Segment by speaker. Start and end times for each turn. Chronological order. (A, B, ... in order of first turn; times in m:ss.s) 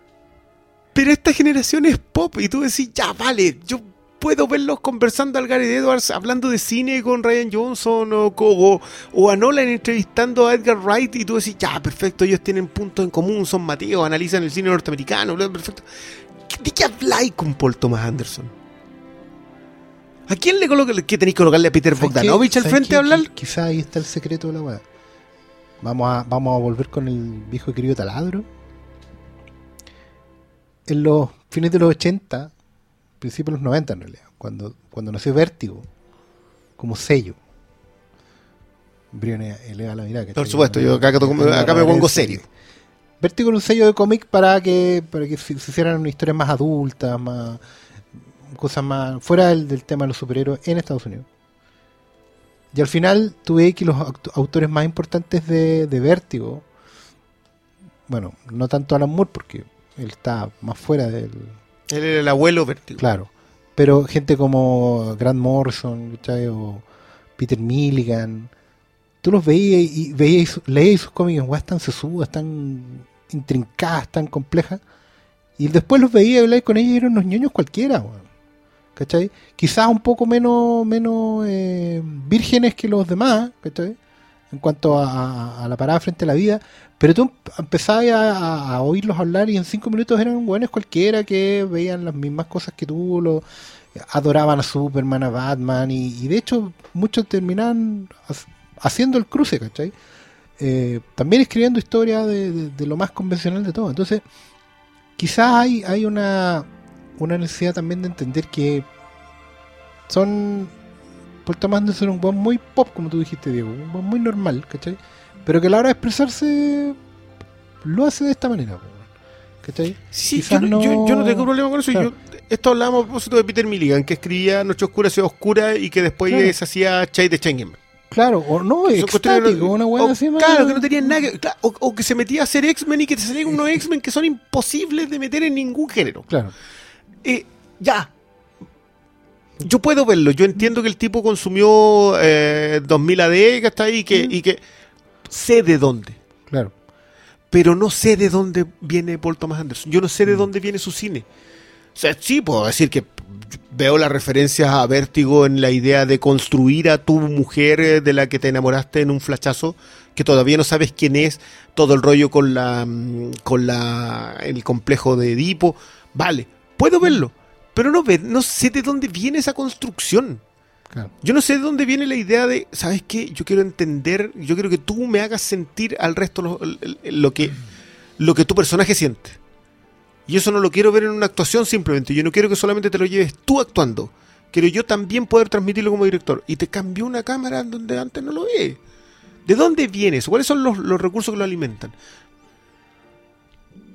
0:01.0-0:15.9 A
0:16.5-0:18.5 A
0:20.3-0:23.3 A
0:22.0-0:24.8 B
0:25.8-0:28.5 B
0:30.9-0:32.5 B
0:33.2-0:35.9 B
0:36.8-0:37.4 B
0:39.1-0:42.4 B
0:40.4-0:42.4 A
0:43.2-0:47.6 B
0:48.4-0:51.3 B
0:52.7-0:56.7 B
0:58.1-1:01.6 B
1:01.9-1:03.0 A
1:03.0-1:06.8 B
1:07.4-1:08.5 B
1:09.2-1:14.8 B
1:15.6-1:18.3 B
1:19.0-1:24.0 B
1:24.5-1:40.0 B
1:40.6-1:44.2 B
1:45.2-1:48.9 B
1:50.1-1:50.7 B
1:51.4-1:57.0 B
1:57.8-1:59.1 B
1:59.6-2:02.1 B
2:00.1-2:07.8 A
2:06.3-2:06.6 B
2:08.1-2:11.2 B
2:08.9-2:16.3 A
2:17.2-2:18.1 A
2:19.6-2:24.6 A
2:25.3-2:26.2 A
2:27.5-2:31.2 A
2:32.0-2:50.4 A
2:51.2-2:57.6 A
2:58.2-2:59.4 A
3:00.3-3:08.8 A
3:09.5-3:11.9 A